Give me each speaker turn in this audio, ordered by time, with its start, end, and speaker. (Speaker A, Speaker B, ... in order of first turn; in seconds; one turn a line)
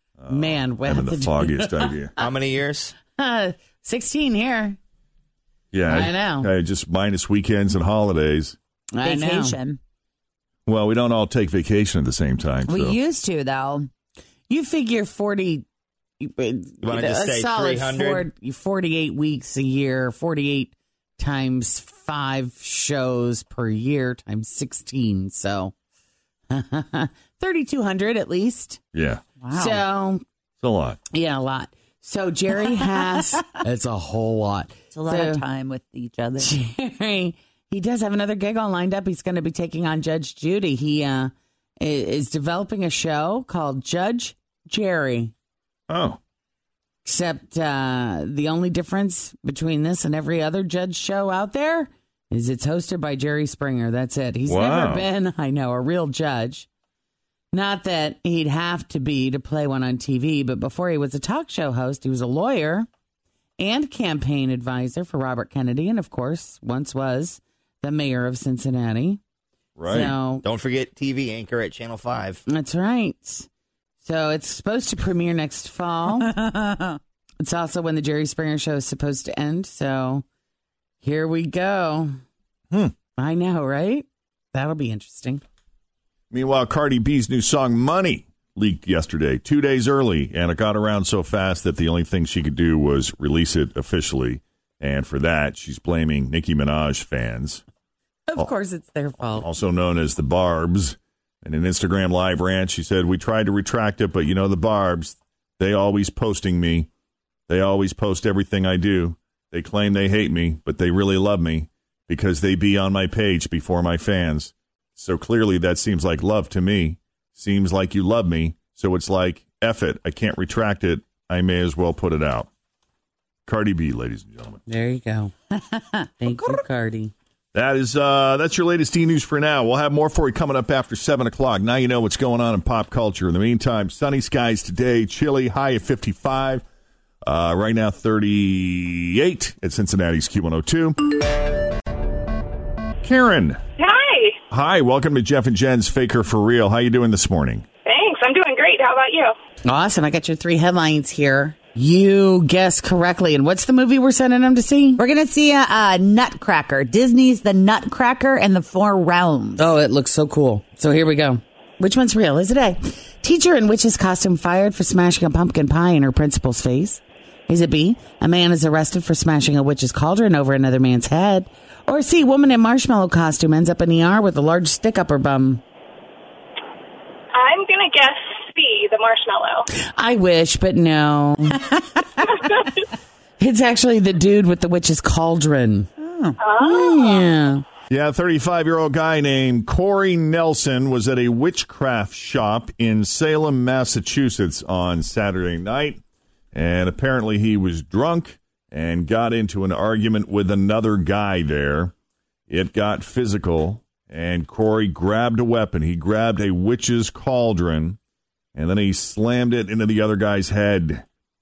Speaker A: 0.2-2.1
Speaker B: 0.3-2.3
Speaker C: 2.2-2.9
Speaker B: 3.0-4.8
Speaker A: 5.7-8.6
Speaker B: 5.9-6.5
Speaker B: 8.9-9.6
Speaker D: 9.0-9.8
Speaker A: 10.7-13.0
Speaker D: 12.7-13.9
Speaker B: 14.5-15.7
Speaker B: 16.2-25.7
Speaker C: 16.8-18.2
Speaker B: 26.5-28.8
Speaker A: 28.9-29.2
Speaker D: 29.4-29.8
Speaker B: 29.5-30.2
Speaker A: 30.6-31.0
Speaker B: 31.1-35.4
Speaker D: 34.9-36.5
Speaker B: 36.4-45.3
Speaker A: 45.9-46.2
Speaker B: 47.0-56.7
Speaker A: 54.5-55.1
Speaker B: 57.5-62.9
Speaker B: 63.6-69.2
Speaker A: 69.8-70.1
Speaker B: 69.9-70.4
Speaker C: 70.0-72.4
Speaker B: 72.5-73.5
Speaker B: 74.0-76.4
Speaker D: 76.4-76.9
Speaker B: 77.4-80.2
Speaker B: 81.0-82.1
Speaker B: 83.2-85.4
Speaker A: 86.3-97.6
Speaker B: 98.3-99.5
Speaker A: 99.4-106.9
Speaker A: 107.5-122.5
Speaker A: 123.5-124.6
Speaker B: 124.7-127.1
Speaker A: 127.5-136.6
Speaker A: 137.2-141.1
Speaker A: 143.0-143.6
Speaker E: 143.8-144.4
Speaker A: 144.5-147.6
Speaker E: 147.8-149.3
Speaker B: 149.6-155.0
Speaker D: 155.0-159.6
Speaker B: 159.6-175.6
Speaker E: 177.3-179.7
Speaker B: 179.8-182.3
Speaker B: 183.4-185.9
Speaker D: 186.0-186.4
Speaker E: 186.4-187.0
Speaker B: 186.6-187.6
Speaker A: 187.9-196.0
Speaker A: 196.5-201.9
Speaker A: 202.5-208.0
Speaker A: 208.5-211.0